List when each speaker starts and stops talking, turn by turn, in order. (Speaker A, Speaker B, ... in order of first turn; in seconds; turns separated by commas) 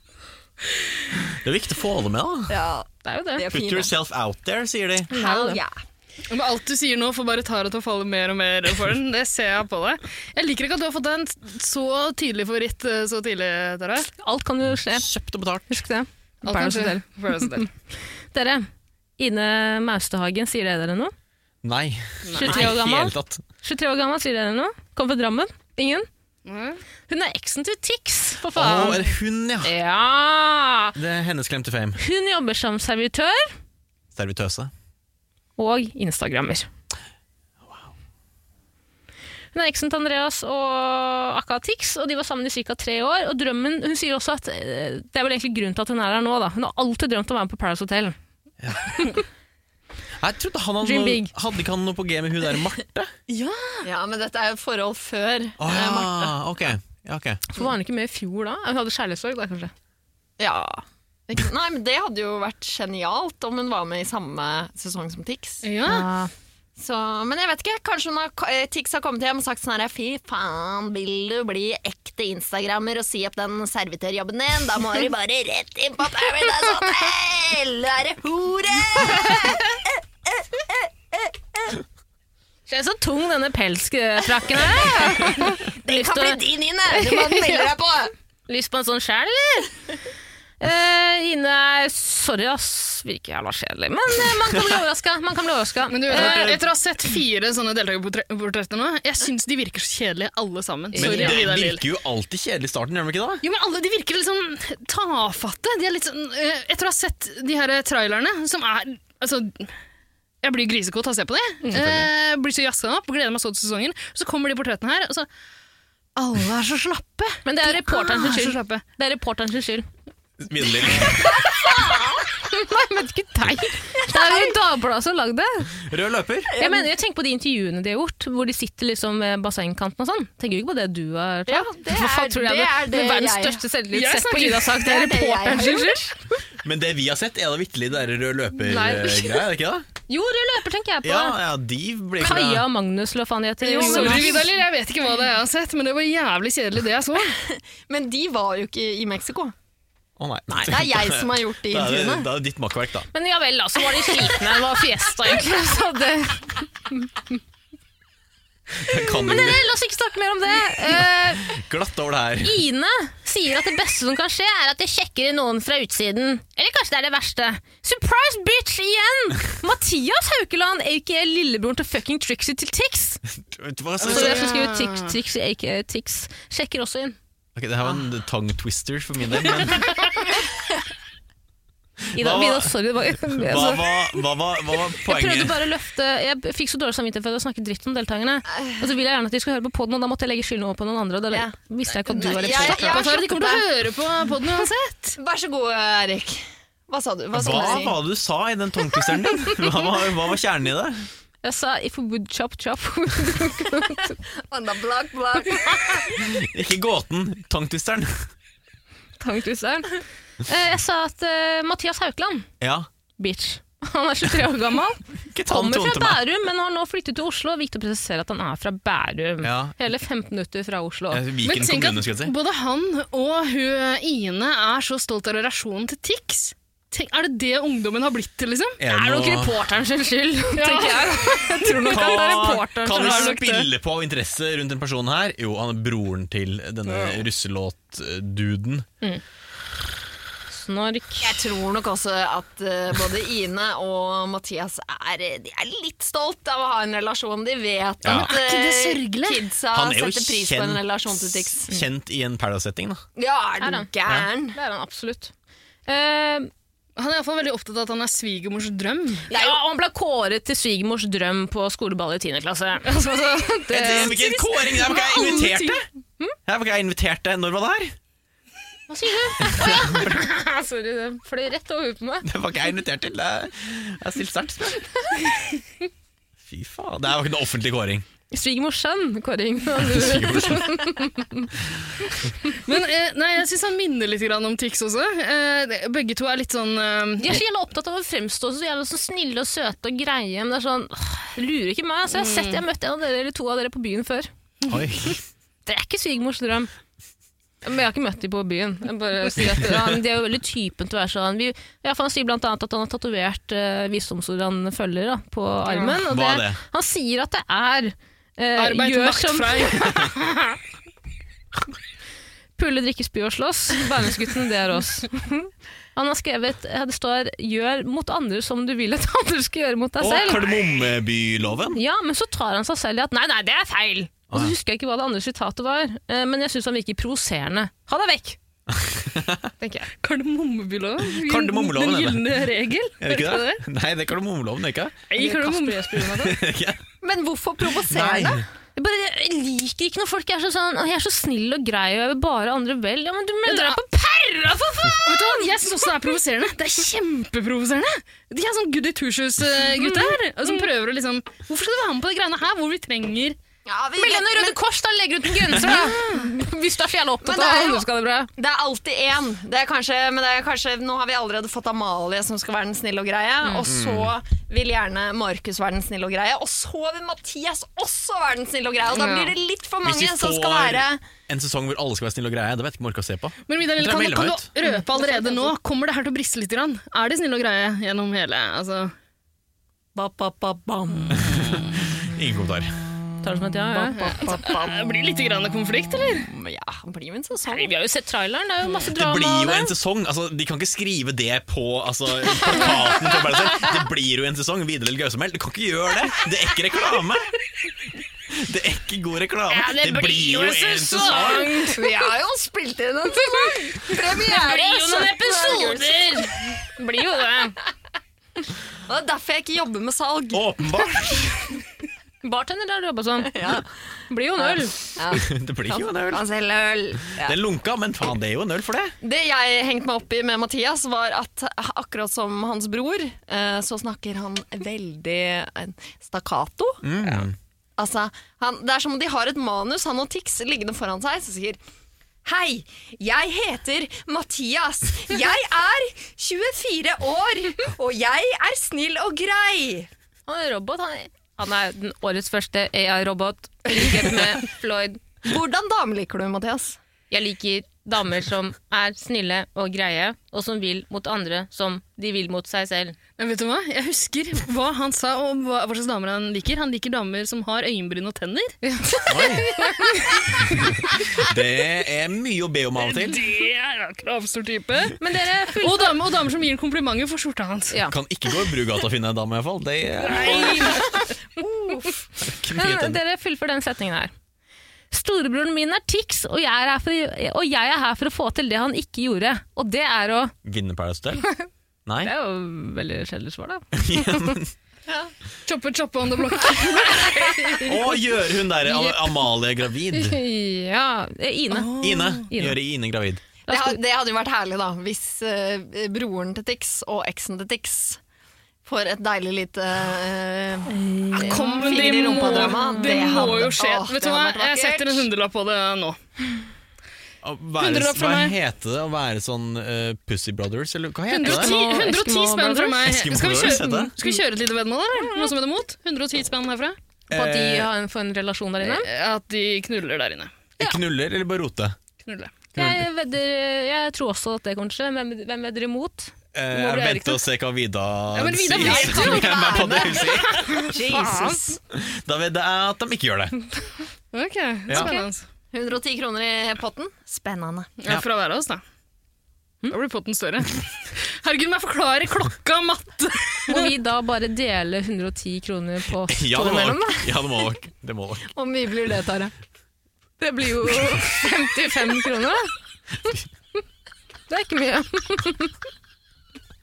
Speaker A: 1.2-2.5, Speaker B: 2.5-3.9, Speaker C: 3.0-3.5, Speaker A: 3.5-5.1, Speaker C: 5.1-5.6, Speaker B: 5.1-5.7, Speaker D: 6.3-14.1, Speaker C: 14.2-15.1, Speaker A: 14.9-15.8, Speaker C: 15.7-17.7, Speaker D: 16.4-17.7, Speaker C: 18.3-21.1, Speaker A: 21.6-23.4, Speaker D: 22.2-22.6, Speaker C: 22.3-26.1, Speaker D: 26.4-26.8, Speaker C: 27.1-29.1, Speaker A: 28.5-29.7, Speaker C: 29.6-30.9, Speaker A: 30.9-32.0, Speaker C: 32.0-33.5, Speaker A: 34.1-34.7, Speaker C: 35.6-36.7, Speaker A: 37.6-37.9, Speaker C: 39.5-48.1, Speaker A: 48.6-49.1, Speaker C: 48.9-49.2, Speaker A: 50.2-53.1, Speaker C: 50.8-51.3, Speaker D: 53.3-53.9, Speaker B: 53.8-56.4, Speaker A: 55.6-57.4, Speaker C: 57.5-59.7, Speaker B: 60.4-65.6, Speaker D: 65.6-66.1, Speaker C: 65.8-66.3, Speaker B: 66.8-81.8, Speaker C: 82.7-87.6, Speaker B: 84.5-88.1, Speaker C: 88.5-89.7, Speaker C: 90.6-96.5, Speaker D: 95.9-101.8, Speaker A: 96.1-96.6, Speaker C: 100.9-101.4, Speaker A: 101.0-103.4, Speaker D: 103.4-109.7, Speaker D: 110.4-115.3, Speaker A: 111.7-112.1, Speaker D: 116.2-118.8, Speaker C: 117.4-119.9, Speaker A: 120.4-121.5, Speaker B: 121.2-122.3, Speaker C: 121.6-121.9, Speaker C: 122.5-125.7, Speaker B: 124.0-124.5, Speaker A: 125.8-126.5, Speaker B: 126.5-126.9, Speaker C: 126.6-136.4, Speaker B: 131.5-133.6, Speaker D: 133.9-134.7, Speaker B: 134.7-136.1, Speaker A: 136.6-139.9, Speaker C: 138.6-139.5, Speaker C: 140.1-141.4, Speaker A: 141.0-142.7, Speaker C: 142.2-144.4, Speaker D: 143.6-147.3, Speaker B: 143.7-144.4, Speaker B: 147.3-149.5, Speaker A: 150.2-153.1, Speaker B: 150.6-152.3, Speaker C: 153.1-157.1, Speaker A: 158.8-159.7, Speaker C: 158.9-161.5, Speaker A: 160.9-162.6, Speaker C: 162.4-173.2, Speaker A: 173.4-174.4, Speaker C: 174.0-177.2, Speaker D: 174.0-175.2, Speaker A: 177.5-180.0, Speaker A: 182.1-182.7, Speaker C: 182.1-184.2, Speaker A: 183.2-185.6, Speaker C: 185.0-193.1, Speaker B: 191.3-193.6, Speaker D: 192.4-195.2, Speaker B: 195.2-198.0, Speaker A: 197.3-201.1, Speaker C: 201.4-204.2, Speaker B: 204.4-206.2, Speaker A: 206.2-208.3, Speaker C: 209.2-212.5, Speaker A: 212.6-212.9, Speaker C: 213.2-221.2, Speaker A: 215.3-216.2, Speaker A: 219.4-219.7, Speaker A: 221.1-222.3, Speaker D: 221.4-228.8, Speaker A: 228.8-229.6, Speaker C: 228.9-233.3, Speaker D: 230.5-232.0, Speaker A: 231.7-238.8, Speaker D: 232.9-233.7, Speaker C: 240.5-241.3, Speaker B: 241.2-251.8, Speaker A: 248.0-248.3, Speaker D: 248.1-249.5, Speaker A: 249.7-253.0, Speaker B: 253.2-254.6, Speaker C: 253.6-253.9, Speaker C: 254.5-255.3, Speaker C: 255.9-256.5, Speaker D: 256.9-259.3, Speaker B: 259.3-259.6, Speaker C: 259.3-265.5, Speaker A: 263.7-265.8, Speaker D: 265.0-265.8, Speaker A: 266.4-267.9, Speaker C: 268.9-272.3, Speaker A: 269.4-270.1, Speaker A: 272.2-274.9, Speaker A: 276.4-278.0, Speaker C: 278.3-281.5, Speaker A: 279.7-280.8, Speaker D: 282.5-287.4, Speaker C: 287.2-294.3, Speaker D: 292.1-292.6, Speaker A: 294.7-295.2, Speaker C: 295.6-296.7, Speaker C: 297.6-310.1, Speaker A: 306.0-306.6, Speaker D: 308.6-310.6, Speaker C: 312.6-320.6, Speaker A: 320.0-321.8, Speaker C: 321.7-328.4, Speaker A: 328.7-329.5, Speaker C: 329.6-329.9, Speaker D: 330.0-333.6, Speaker A: 331.0-332.2, Speaker A: 333.0-335.0, Speaker D: 335.1-336.1, Speaker C: 335.1-336.4, Speaker A: 336.1-336.8, Speaker B: 337.0-338.4, Speaker A: 337.9-338.4, Speaker C: 338.7-345.9, Speaker D: 343.4-343.8, Speaker D: 345.0-353.4, Speaker C: 349.8-350.7, Speaker B: 353.6-354.6, Speaker C: 354.0-358.3, Speaker B: 355.6-356.1, Speaker D: 355.8-356.2, Speaker B: 357.2-357.9, Speaker B: 358.4-371.0, Speaker A: 363.6-364.1, Speaker D: 368.9-369.3, Speaker A: 369.8-374.5, Speaker D: 373.5-378.9, Speaker B: 374.6-375.5, Speaker B: 379.9-381.5, Speaker D: 380.9-381.7, Speaker A: 381.1-382.8, Speaker C: 383.2-384.4, Speaker B: 383.8-384.9, Speaker D: 383.9-386.2, Speaker B: 386.2-387.7, Speaker C: 387.5-389.7, Speaker A: 388.8-397.3, Speaker A: 398.3-401.6, Speaker C: 399.5-402.1, Speaker B: 401.2-406.2, Speaker C: 403.2-407.6, Speaker B: 408.9-410.5, Speaker A: 410.3-411.5, Speaker C: 412.2-413.4, Speaker B: 413.3-413.7, Speaker C: 414.1-414.9, Speaker B: 414.4-417.4, Speaker A: 415.1-416.2, Speaker A: 417.2-418.9, Speaker B: 419.0-431.6, Speaker A: 426.8-427.4, Speaker B: 432.2-439.9, Speaker C: 440.3-445.0, Speaker B: 443.8-444.4, Speaker B: 445.2-446.8, Speaker C: 447.1-453.0, Speaker D: 453.2-458.6, Speaker C: 458.6-460.2, Speaker A: 459.1-459.5, Speaker D: 460.0-460.7, Speaker A: 460.6-463.2, Speaker D: 462.8-467.8, Speaker C: 465.0-465.9, Speaker A: 467.9-470.9, Speaker D: 470.0-471.1, Speaker B: 471.4-472.0, Speaker A: 472.2-473.0, Speaker C: 472.5-474.1, Speaker C: 474.9-480.3, Speaker A: 480.4-481.3, Speaker A: 481.9-482.1, Speaker C: 482.0-484.4, Speaker A: 483.7-484.5, Speaker B: 484.9-485.1, Speaker D: 485.4-487.4, Speaker C: 486.8-487.9, Speaker A: 487.6-490.2, Speaker C: 488.6-489.2, Speaker C: 489.9-492.6, Speaker D: 491.5-492.2, Speaker A: 491.8-493.2, Speaker C: 493.5-493.8, Speaker B: 493.5-498.0, Speaker B: 498.6-505.1, Speaker C: 500.7-503.4, Speaker D: 501.2-506.0, Speaker A: 507.2-511.5, Speaker D: 507.6-508.3, Speaker D: 511.1-516.8, Speaker C: 511.2-512.8, Speaker A: 512.8-513.9, Speaker C: 515.0-515.3, Speaker A: 517.1-517.7, Speaker C: 517.1-518.9, Speaker D: 518.6-520.3, Speaker A: 520.6-521.8, Speaker D: 522.0-522.3, Speaker A: 522.5-522.9, Speaker C: 522.5-527.1, Speaker A: 526.3-530.6, Speaker D: 528.1-531.0, Speaker B: 528.5-531.6, Speaker C: 530.7-531.4, Speaker A: 531.7-533.4, Speaker D: 534.1-535.2, Speaker C: 534.7-535.1, Speaker B: 535.5-537.7, Speaker D: 537.8-538.6, Speaker D: 539.7-543.7, Speaker C: 543.5-547.1, Speaker A: 546.1-548.3, Speaker B: 548.3-549.3, Speaker C: 550.2-552.5, Speaker C: 554.3-555.5